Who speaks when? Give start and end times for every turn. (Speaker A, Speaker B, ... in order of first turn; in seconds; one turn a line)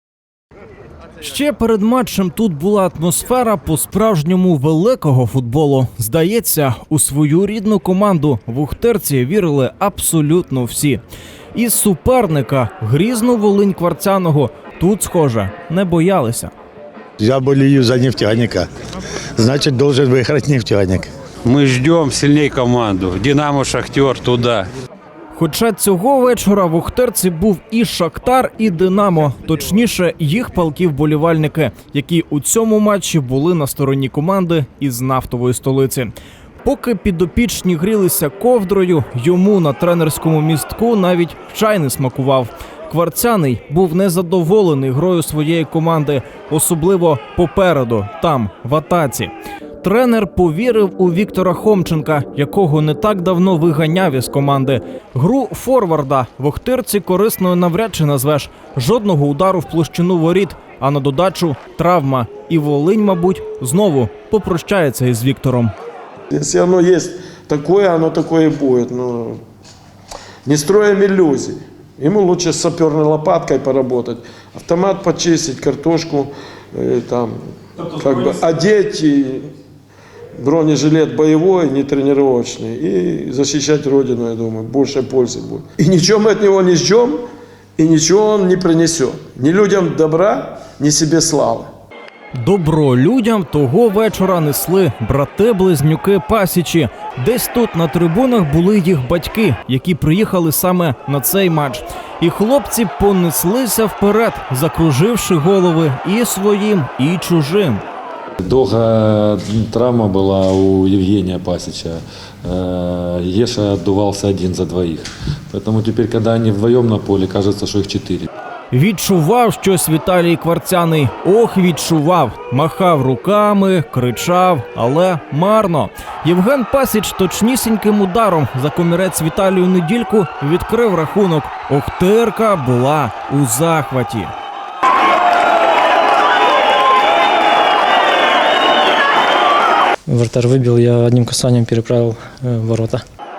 Speaker A: 1.2-11.0
Speaker A: 11.5-16.5
Speaker B: 17.2-18.7
Speaker B: 19.4-21.1
Speaker C: 21.4-24.7
Speaker A: 25.3-36.1
Speaker A: 36.6-65.7
Speaker D: 66.3-69.4
Speaker D: 70.5-79.5
Speaker D: 80.4-87.2
Speaker D: 87.8-91.7
Speaker A: 92.4-107.8
Speaker E: 108.4-118.3
Speaker A: 118.7-134.3
Speaker F: 140.1-143.0